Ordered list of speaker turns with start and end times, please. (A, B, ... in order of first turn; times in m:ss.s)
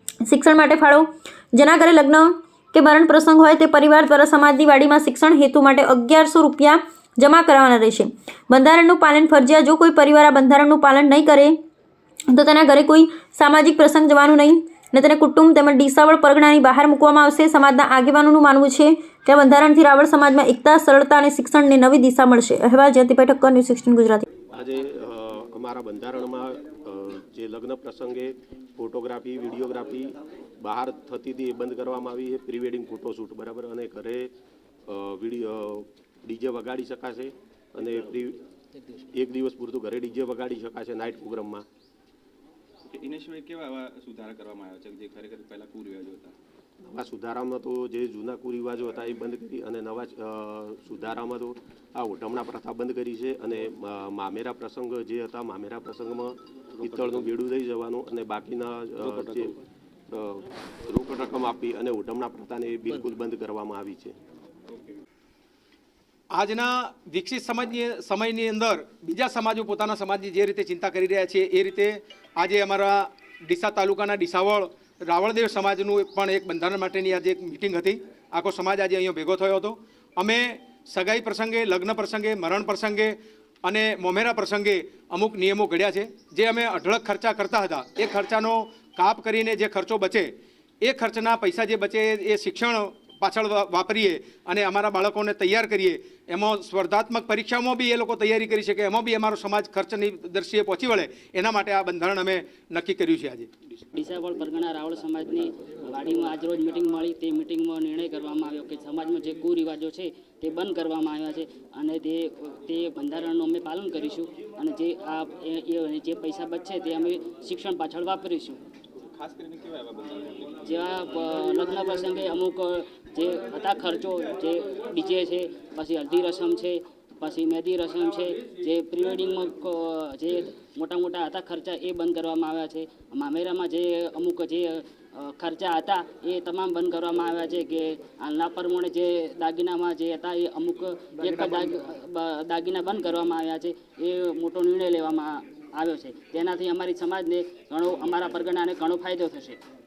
0:00.3-0:11.6 A
0:12.3-0:24.3 A
0:24.5-0:34.3 B
0:34.9-0:38.4 B
0:39.1-0:41.6 B
0:42.9-0:46.4 C
0:46.8-0:59.6 B
1:00.1-1:04.2 B
1:06.3-1:43.5 D
1:43.9-1:58.6 E
1:59.0-2:00.9 C
2:00.6-2:29.6 E